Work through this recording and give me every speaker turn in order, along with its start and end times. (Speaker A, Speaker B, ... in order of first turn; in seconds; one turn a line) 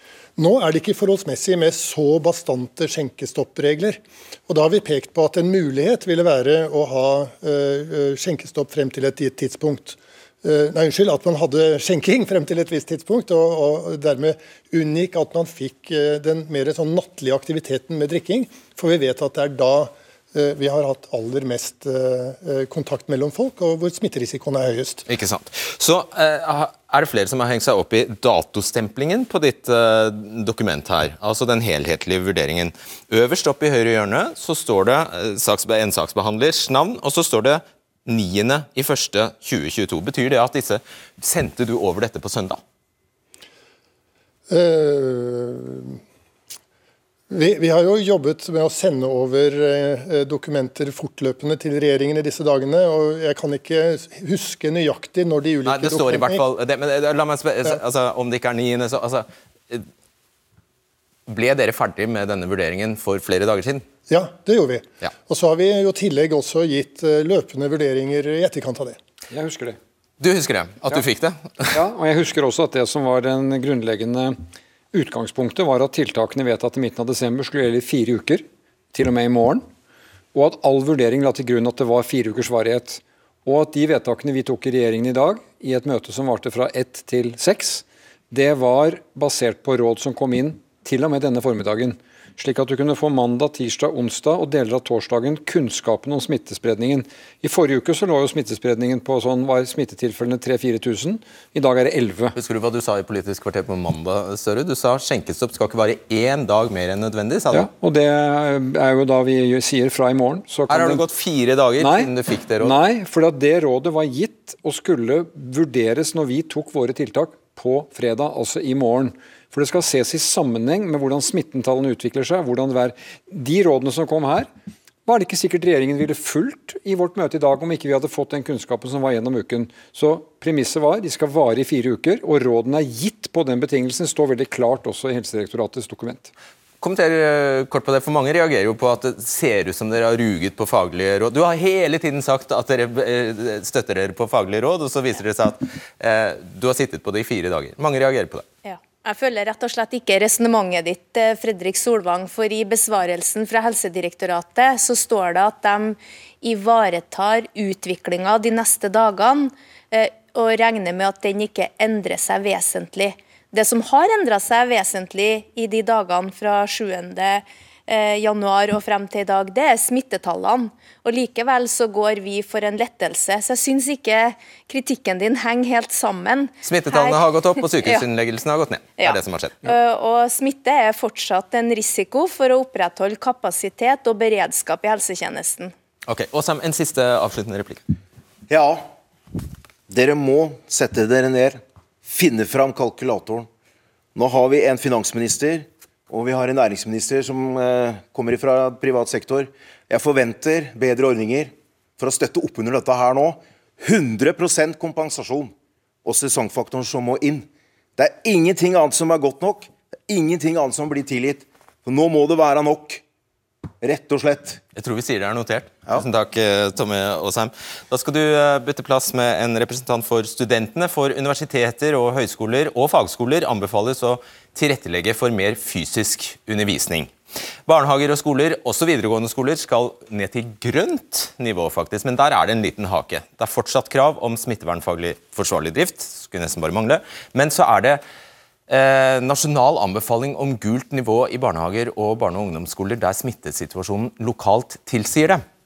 Speaker A: 0.4-25.1
Speaker B: 25.1-42.6
Speaker A: 44.5-46.0
Speaker A: 47.3-56.4
Speaker B: 55.6-59.9
Speaker B: 61.3-63.9
Speaker A: 64.1-69.0
Speaker C: 69.3-69.8
Speaker B: 70.2-71.8
Speaker C: 71.7-74.4
Speaker C: 74.9-79.7
Speaker C: 80.3-102.4
Speaker B: 102.4-107.7
Speaker C: 107.5-111.0
Speaker B: 110.7-112.8
Speaker C: 111.8-124.5
Speaker C: 125.0-136.3
Speaker B: 136.8-148.4
Speaker D: 148.6-178.0
Speaker B: 176.6-179.7
Speaker D: 179.0-185.7
Speaker B: 186.1-187.8
Speaker E: 188.5-188.9
Speaker E: 189.9-193.5
Speaker E: 194.1-205.5
Speaker E: 206.0-213.0
Speaker E: 213.8-214.6
Speaker B: 214.8-227.1
Speaker B: 227.7-238.0
Speaker B: 238.7-245.4